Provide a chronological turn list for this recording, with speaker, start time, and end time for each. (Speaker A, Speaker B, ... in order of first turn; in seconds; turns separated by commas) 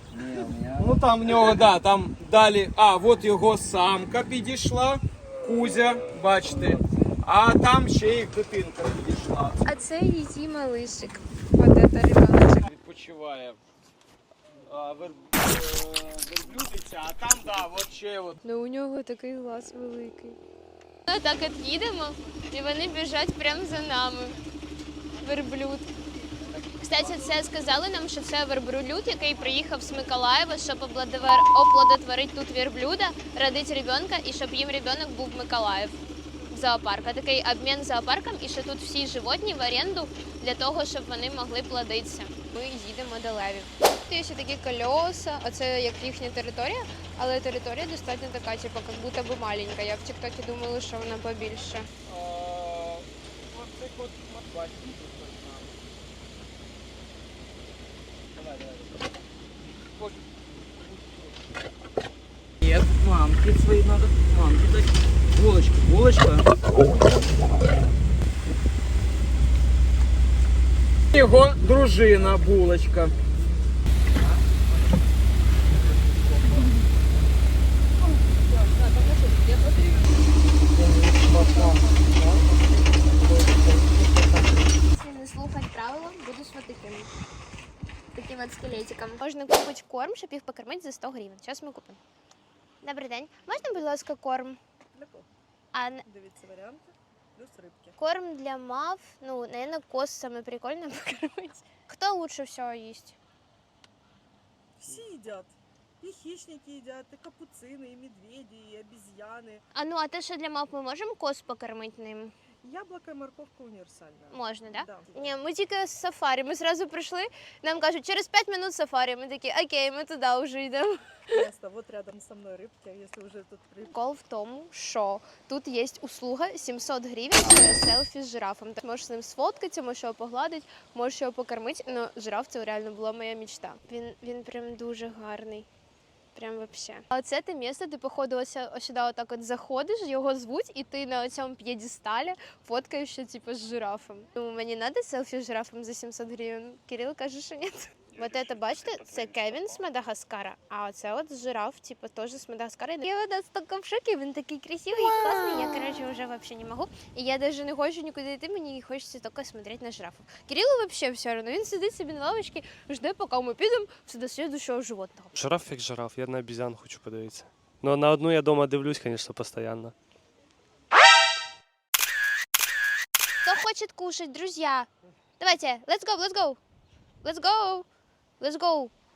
Speaker A: 0.1-1.0, Speaker B: 0.8-9.6, Speaker C: 9.7-12.7, Speaker B: 12.6-13.6, Speaker B: 14.6-18.4, Speaker C: 18.4-20.4, Speaker C: 21.1-24.4, Speaker C: 25.2-25.9, Speaker C: 26.9-36.0, Speaker C: 36.5-51.9, Speaker B: 52.0-55.8, Speaker B: 58.3-59.0, Speaker B: 59.9-60.2, Speaker B: 62.6-66.5, Speaker B: 71.1-73.1, Speaker D: 78.5-79.9, Speaker A: 80.8-84.6, Speaker D: 81.3-81.9, Speaker C: 84.9-87.1, Speaker C: 88.1-92.0, Speaker C: 92.8-94.6, Speaker D: 94.9-95.3, Speaker C: 95.7-96.0, Speaker D: 96.0-98.0, Speaker C: 98.0-103.2, Speaker D: 104.8-109.6, Speaker C: 109.8-112.3, Speaker D: 112.6-115.4, Speaker C: 114.3-121.3, Speaker D: 121.3-123.9, Speaker C: 123.8-135.7, Speaker C: 136.3-165.3, Speaker E: 148.5-149.3, Speaker E: 165.3-169.9, Speaker C: 173.4-174.9, Speaker C: 175.4-176.6, Speaker C: 177.2-177.8, Speaker C: 178.4-178.9